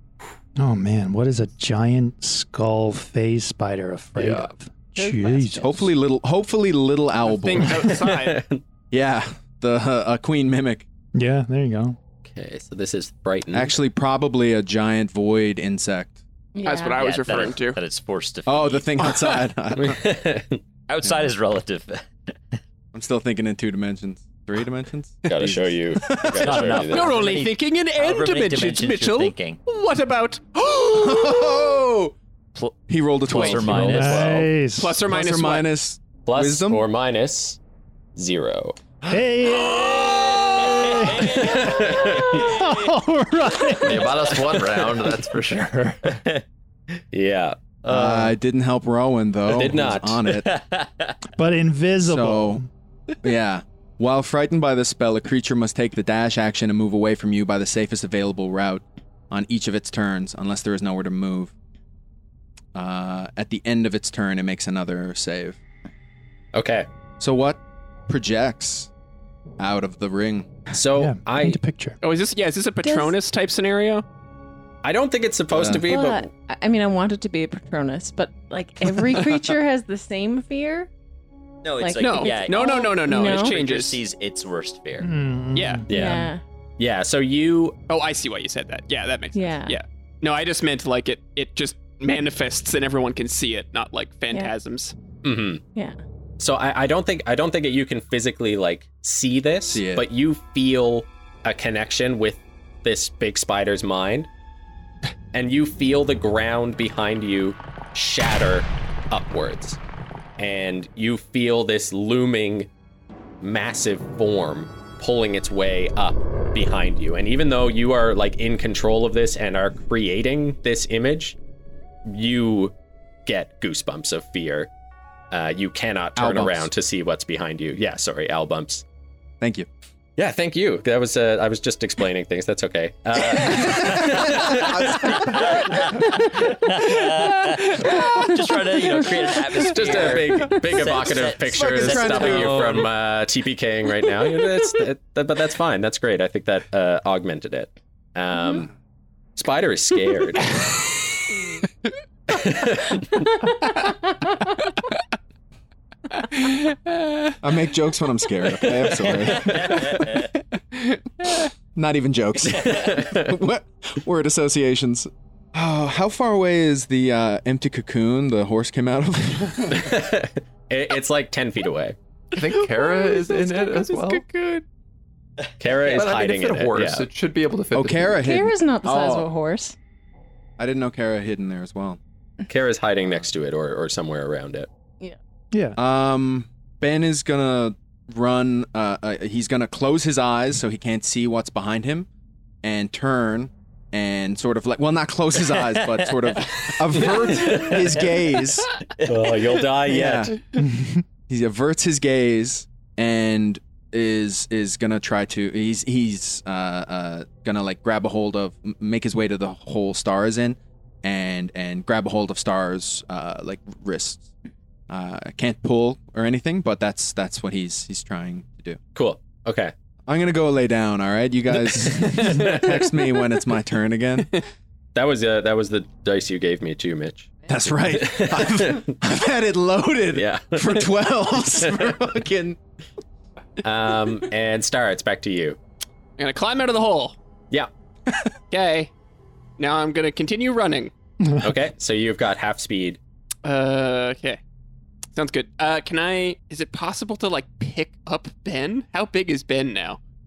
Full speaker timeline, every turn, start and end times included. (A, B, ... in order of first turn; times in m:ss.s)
0:00.6-0:05.9 A
0:04.2-0:04.5 B
0:05.0-0:05.7 C
0:05.6-0:08.0 D
0:07.2-0:08.4 E
0:07.8-0:08.6 F
0:08.9-0:10.9 D
0:11.1-0:12.0 A
0:12.2-0:13.7 F
0:13.5-0:16.2 D
0:16.6-0:17.1 C
0:16.6-0:17.8 E
0:17.0-0:19.0 G
0:18.5-0:20.0 D
0:19.8-0:20.6 F
0:20.9-0:22.6 G
0:22.9-0:26.8 D
0:25.2-0:27.3 F
0:26.3-0:29.6 G
0:26.9-0:31.6 E
0:30.9-0:32.2 D
0:32.6-0:34.5 G
0:32.9-0:34.4 D
0:33.5-0:35.0 A
0:34.7-0:35.7 E
0:35.1-0:36.8 D
0:36.3-0:37.6 F
0:38.2-0:38.8 F
0:39.1-0:41.5 A
0:41.0-0:42.9 G
0:41.2-0:42.6 F
0:42.3-0:44.3 A
0:43.8-0:46.2 B
0:47.1-0:47.6 F
0:47.9-0:50.5 D
0:47.9-0:48.2 G
0:49.5-0:50.3 F
0:50.4-0:51.2 G
0:51.4-0:52.7 A
0:52.1-0:52.6 D
0:53.2-1:01.5 D
1:02.7-1:05.6 D
1:06.5-1:06.9 F
1:07.2-1:08.9 D
1:09.6-1:10.5 D
1:10.7-1:11.6 F
1:10.9-1:12.0 A
1:12.0-1:14.0 E
1:12.8-1:13.2 C
1:14.8-1:16.3 F
1:15.5-1:15.8 D
1:15.8-1:20.9 C
1:21.6-1:25.1 G
1:21.8-1:23.6 C
1:22.0-1:24.0 E
1:25.0-1:26.3 A
1:25.5-1:25.8 E
1:25.9-1:26.4 C
1:25.9-1:27.8 F
1:27.9-1:35.0 E
1:29.3-1:29.8 C
1:35.2-1:35.6 F
1:36.4-1:44.3 F
1:39.7-1:40.0 D
1:45.3-1:49.8 F
1:50.4-1:52.7 F
1:53.4-2:01.4 F
2:02.1-2:02.7 F
2:03.3-2:04.7 F
2:05.3-2:08.8 F
2:06.2-2:06.7 D
2:09.4-2:09.7 D
2:10.2-2:15.5 F
2:13.6-2:15.4 D
2:15.0-2:22.9 G
2:19.6-2:28.7 F
2:21.5-2:22.9 D
2:29.4-2:30.9 F
2:32.3-2:33.2 F
2:33.4-2:34.3 C
2:36.2-2:37.3 E
2:37.4-2:39.9 D
2:39.0-2:39.8 F
2:39.2-2:40.1 G
2:41.8-2:50.0 D
2:42.5-2:43.4 F
2:49.7-2:52.0 F
2:52.4-2:54.2 B
2:52.6-2:54.6 E
2:55.6-2:57.1 F
2:55.7-2:56.0 G
2:55.9-2:58.2 B
2:57.7-2:59.3 D
2:58.2-2:59.8 C
3:00.6-3:02.0 D
3:02.5-3:04.7 F
3:05.5-3:05.8 A
3:05.8-3:12.1 D
3:12.6-3:18.7 D
3:15.6-3:16.7 G
3:16.9-3:18.0 F
3:19.0-3:20.4 F
3:19.9-3:20.4 D
3:20.6-3:21.0 A
3:21.3-3:34.3 D
3:34.9-3:38.8 D
3:39.0-3:39.7 F
3:40.1-3:44.3 D
3:41.7-3:42.8 F
3:42.2-3:42.6 E
3:45.0-3:47.3 F
3:47.5-3:52.6 D
3:47.9-3:49.0 F
3:50.2-3:52.0 F
3:53.6-3:55.6 F
3:56.2-3:57.2 E
3:58.5-3:58.9 E
3:59.6-4:00.9 E
4:01.2-4:01.5 A
4:01.4-4:03.0 F
4:03.4-4:04.4 E
4:05.1-4:10.0 E